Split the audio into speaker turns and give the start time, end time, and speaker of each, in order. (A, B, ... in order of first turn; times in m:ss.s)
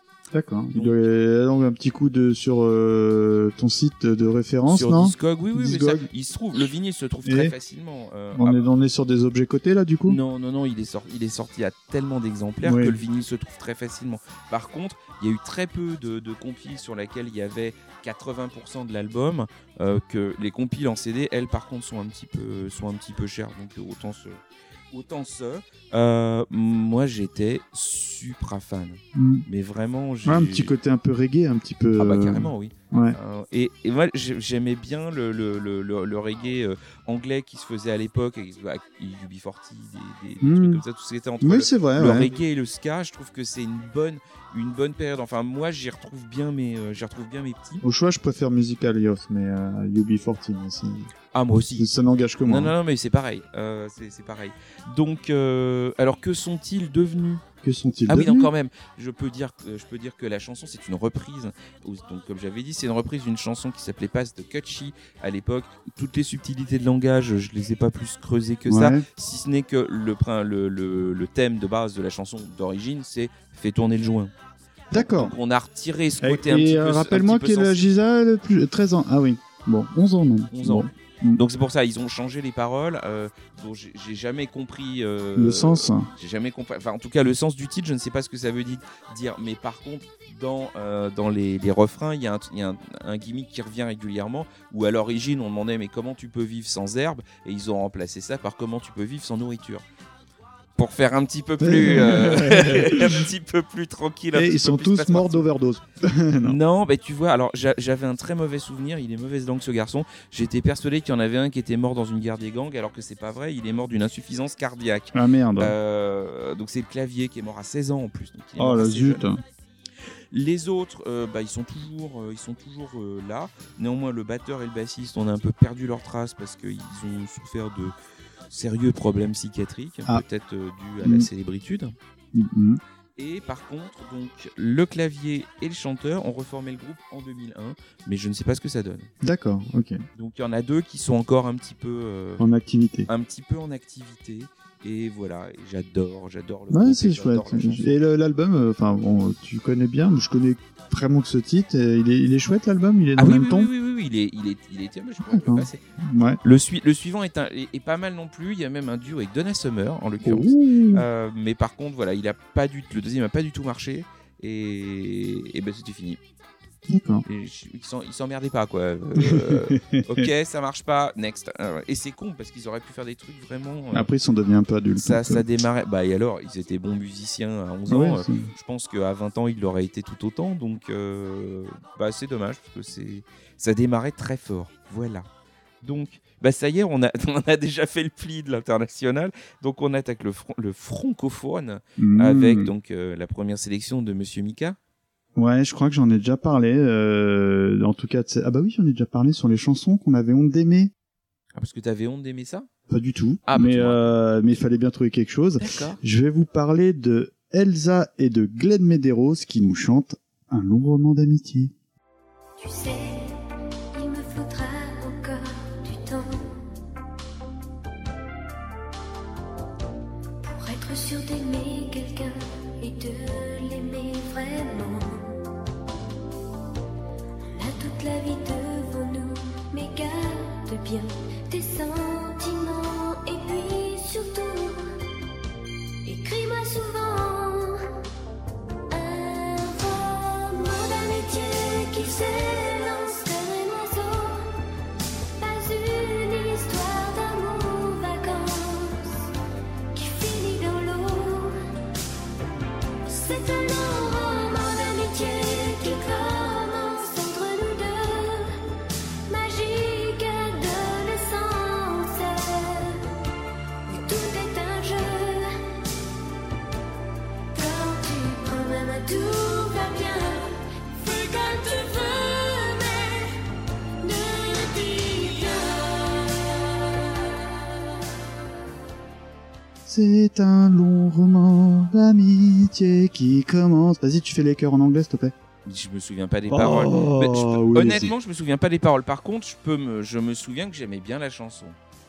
0:00.3-0:06.0 A
0:00.7-0:01.0 B
0:04.7-0:08.6 B
0:07.2-0:07.5 A
0:08.3-0:10.2 A
0:10.1-0:30.7 B
0:12.6-0:13.0 A
0:29.1-0:29.4 A
0:30.2-0:33.2 A
0:32.0-0:47.8 B
0:40.4-0:40.8 A
0:41.4-0:42.3 A
0:47.8-0:51.1 A
0:51.3-0:51.9 B
0:51.8-0:52.7 A
0:52.4-0:57.4 B
0:57.6-0:58.5 A
0:58.1-1:14.3 B
1:08.7-1:09.0 A
1:14.9-1:15.3 A
1:14.9-1:17.9 B
1:16.2-1:21.4 A
1:20.5-1:39.8 B
1:25.4-1:26.1 A
1:40.8-1:45.5 B
1:41.6-1:43.3 A
1:44.3-1:46.6 A
1:46.4-1:59.2 B
1:55.1-1:55.7 A
1:58.6-1:59.4 A
2:00.3-2:07.9 B
2:08.5-2:11.9 B
2:11.0-2:11.3 A
2:12.3-2:12.8 A
2:13.2-2:19.1 B
2:19.2-2:20.0 A
2:20.1-2:22.4 B
2:22.4-2:23.1 A
2:23.1-2:28.0 B
2:26.7-2:33.7 A
2:33.2-2:35.8 B
2:35.2-2:36.4 A
2:36.4-2:46.2 B
2:40.2-2:41.0 A
2:46.9-2:47.2 A
2:47.2-2:54.1 B
2:49.2-2:50.3 A
2:53.9-2:55.5 A
2:55.0-3:05.3 B
2:57.9-2:58.5 A
3:05.8-3:14.8 B
3:12.0-3:12.7 A
3:15.4-3:20.9 A
3:21.6-3:22.7 B
3:22.9-3:31.7 A
3:23.5-3:24.6 B
3:25.6-3:26.0 B
3:32.6-3:33.3 C
3:33.9-3:36.5 C
3:40.4-3:45.4 C
3:47.5-3:54.7 C
3:56.1-3:57.3 C
3:58.9-4:03.5 C
4:05.4-4:07.2 C
4:09.9-4:11.3 C
4:13.6-4:15.0 C
4:16.7-4:18.4 C
4:19.3-4:22.9 C
4:23.9-4:25.4 C
4:27.5-4:33.3 C
4:34.0-4:36.4 C
4:39.8-4:45.3 A
4:45.6-4:51.8 B
4:46.5-4:48.1 A